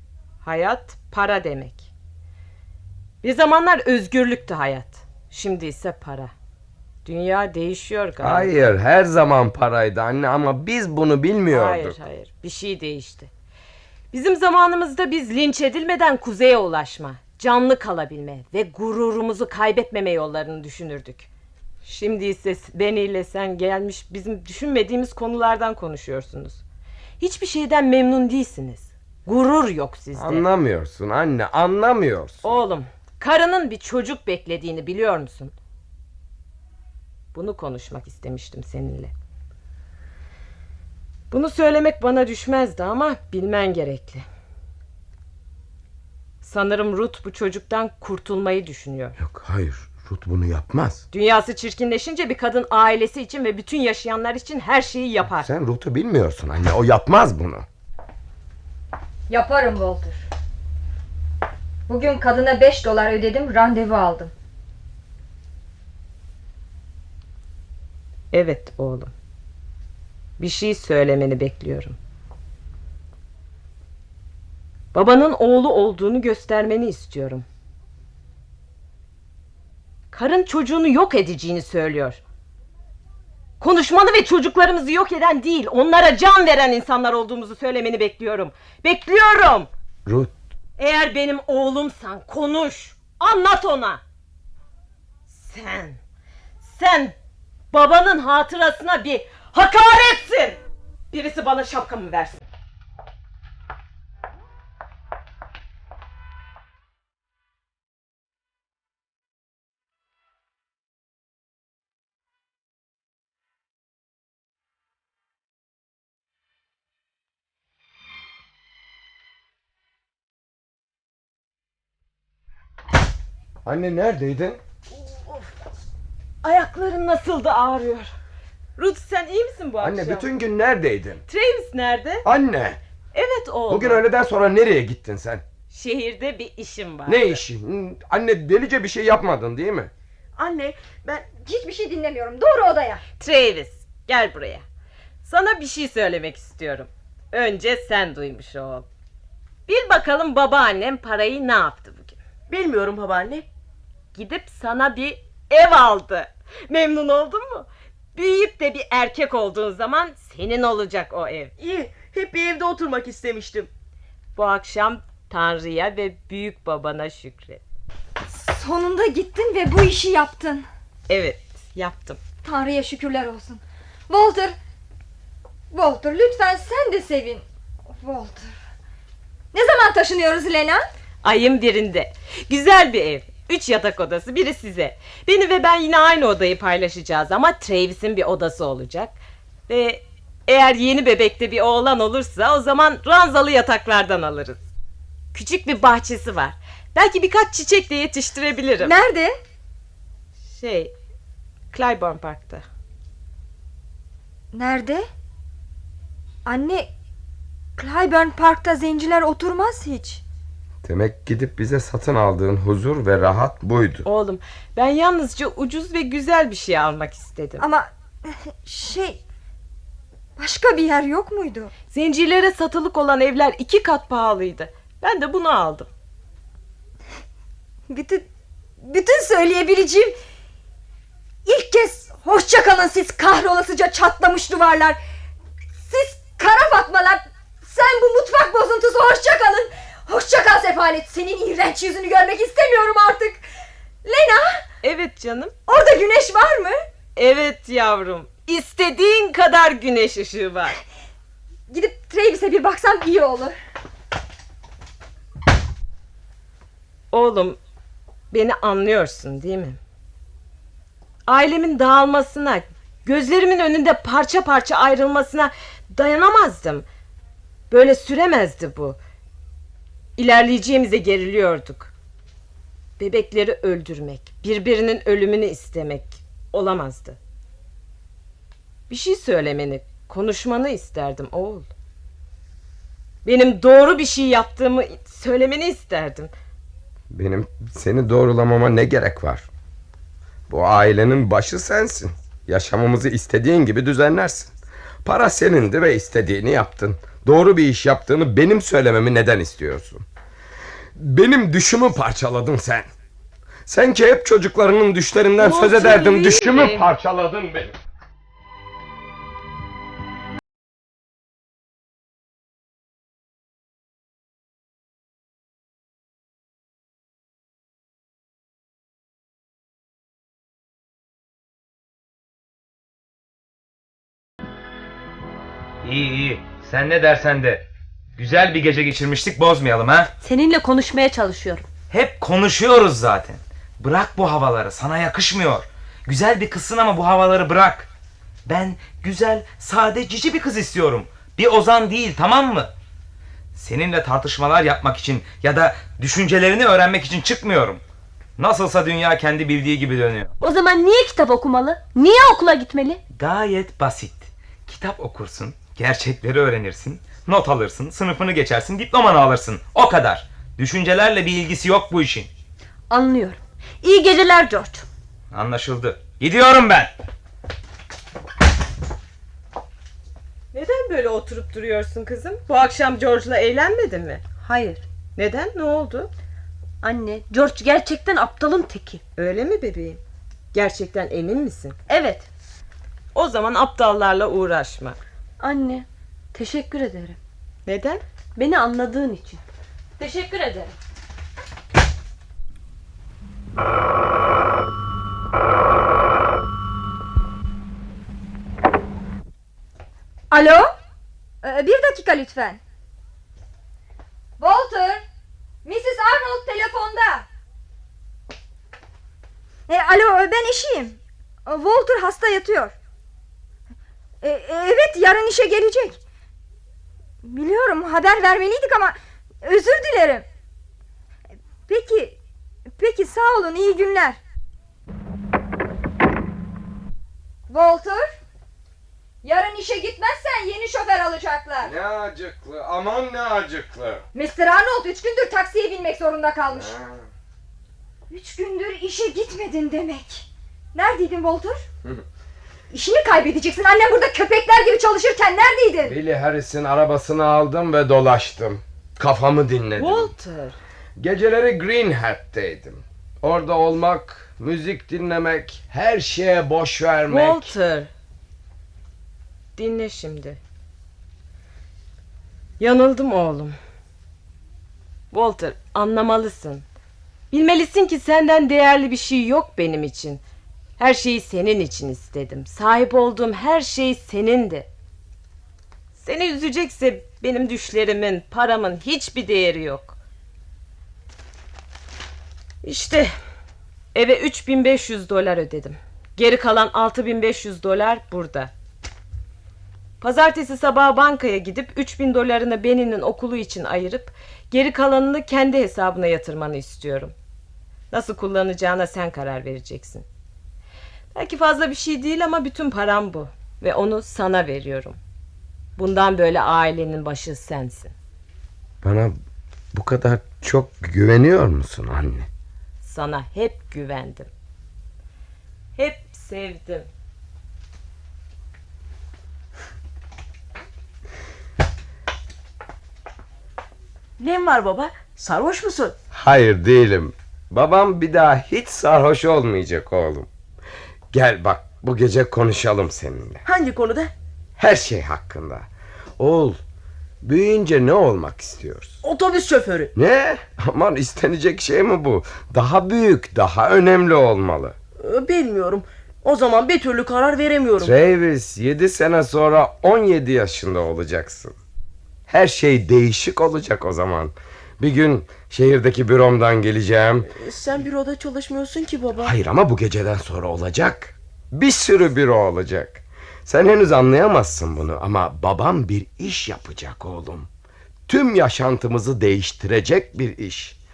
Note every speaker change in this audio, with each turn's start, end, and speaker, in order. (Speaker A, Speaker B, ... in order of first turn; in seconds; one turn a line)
Speaker A: 0.4-1.9
Speaker A: 3.2-6.3
Speaker A: 7.0-8.7
Speaker B: 8.2-12.0
Speaker A: 11.5-13.3
Speaker A: 14.1-21.3
Speaker A: 21.8-26.6
Speaker A: 27.2-30.4
Speaker B: 30.2-32.6
Speaker A: 32.4-35.5
Speaker A: 37.3-39.1
Speaker A: 41.3-44.2
Speaker A: 46.4-49.2
Speaker B: 49.2-51.0
Speaker A: 51.1-55.5
Speaker B: 55.4-57.7
Speaker C: 59.3-60.2
Speaker C: 61.9-64.3
Speaker A: 68.3-69.1
Speaker A: 70.4-72.0
Speaker A: 74.9-77.5
Speaker A: 80.1-82.2
Speaker A: 83.6-89.7
Speaker B: 90.1-90.3
Speaker A: 90.8-94.0
Speaker A: 95.3-96.0
Speaker A: 96.6-97.2
Speaker A: 97.7-100.6
Speaker A: 101.1-102.5
Speaker B: 123.7-124.6
Speaker A: 124.9-125.5
Speaker A: 126.4-128.1
Speaker A: 128.8-130.3
Speaker B: 129.8-131.2
Speaker A: 131.3-132.2
Speaker B: 132.2-132.8
Speaker A: 133.1-134.0
Speaker B: 133.7-135.4
Speaker A: 135.7-137.4
Speaker B: 137.1-139.9
Speaker D: 140.4-141.3
Speaker C: 141.4-143.0
Speaker A: 143.2-144.6
Speaker A: 145.2-148.9
Speaker A: 149.7-152.2
Speaker D: 152.5-153.5
Speaker A: 154.1-161.5
Speaker D: 161.6-163.7
Speaker A: 164.4-167.6
Speaker C: 168.3-170.7
Speaker A: 171.1-172.2
Speaker C: 172.4-174.6
Speaker C: 175.7-178.5
Speaker C: 179.5-180.8
Speaker A: 181.2-189.2
Speaker A: 189.7-194.6
Speaker A: 195.3-198.9
Speaker C: 198.8-199.4
Speaker A: 200.5-200.9
Speaker A: 201.7-202.7
Speaker C: 204.5-205.1
Speaker C: 206.4-206.9
Speaker C: 207.8-210.2
Speaker B: 210.8-214.1
Speaker A: 214.1-217.6
Speaker C: 217.6-219.2
Speaker C: 220.4-221.7
Speaker A: 221.9-225.9
Speaker C: 227.9-228.3
Speaker C: 228.8-230.2
Speaker C: 231.4-235.0
Speaker C: 235.9-243.4
Speaker C: 244.1-244.6
Speaker A: 244.8-245.5
Speaker C: 245.7-246.8
Speaker A: 247.2-250.8
Speaker C: 251.7-253.6
Speaker A: 257.1-257.6
Speaker A: 258.3-259.8
Speaker A: 261.3-266.9
Speaker A: 267.7-269.0
Speaker A: 270.2-271.9
Speaker A: 273.0-277.2
Speaker A: 278.9-281.7
Speaker A: 283.2-286.3
Speaker B: 287.1-289.5
Speaker B: 290.5-294.5
Speaker B: 295.1-300.1
Speaker B: 301.0-302.9
Speaker B: 303.7-307.7
Speaker A: 305.4-306.9
Speaker E: 325.8-327.7
Speaker E: 328.2-330.1
Speaker F: 330.2-331.7
Speaker E: 331.9-337.9
Speaker E: 338.5-342.7
Speaker E: 343.5-347.8
Speaker E: 348.4-350.3
Speaker F: 350.4-353.0
Speaker E: 353.1-362.3
Speaker F: 362.9-364.9
Speaker E: 365.3-367.0
Speaker A: 370.5-374.2
Speaker F: 374.4-374.8
Speaker A: 375.2-376.1
Speaker F: 376.8-379.0
Speaker A: 379.2-380.0
Speaker A: 380.5-381.8
Speaker F: 381.9-382.3
Speaker A: 383.1-385.0
Speaker F: 385.4-387.2
Speaker A: 387.7-388.0
Speaker F: 388.4-389.4
Speaker F: 390.0-390.7
Speaker C: 400.3-400.7
Speaker C: 401.4-402.6
Speaker C: 404.4-405.0
Speaker C: 405.6-407.3
Speaker C: 409.7-412.8
Speaker C: 414.2-416.0
Speaker C: 417.2-420.2
Speaker C: 421.7-422.2
Speaker C: 422.8-424.2
Speaker C: 427.5-428.1
Speaker C: 429.2-431.7
Speaker B: 431.6-434.1
Speaker C: 434.1-436.8
Speaker B: 436.5-437.1
Speaker C: 438.1-441.6
Speaker C: 442.7-446.0
Speaker B: 445.8-450.1
Speaker A: 449.8-450.6
Speaker B: 451.0-457.5
Speaker A: 457.1-457.9
Speaker A: 459.6-460.4
Speaker A: 462.6-463.6
Speaker A: 465.1-466.6
Speaker A: 467.3-470.2
Speaker A: 470.8-474.7
Speaker A: 476.0-480.0
Speaker A: 482.6-483.1
Speaker A: 483.9-488.5
Speaker A: 490.0-497.1
Speaker A: 497.9-500.1
Speaker A: 501.1-505.0
Speaker A: 505.8-507.9
Speaker B: 508.8-509.1
Speaker B: 509.7-512.3
Speaker A: 512.8-514.3
Speaker A: 515.8-516.9
Speaker D: 524.2-526.0
Speaker B: 526.1-530.3
Speaker B: 531.1-533.4
Speaker D: 533.4-534.1
Speaker B: 534.6-535.7
Speaker B: 536.2-536.6
Speaker B: 537.2-539.0
Speaker D: 539.0-539.9
Speaker B: 540.0-544.8
Speaker D: 545.0-548.0
Speaker B: 547.8-551.6
Speaker B: 552.3-557.3
Speaker D: 557.3-559.4
Speaker B: 559.2-567.5
Speaker B: 568.1-570.8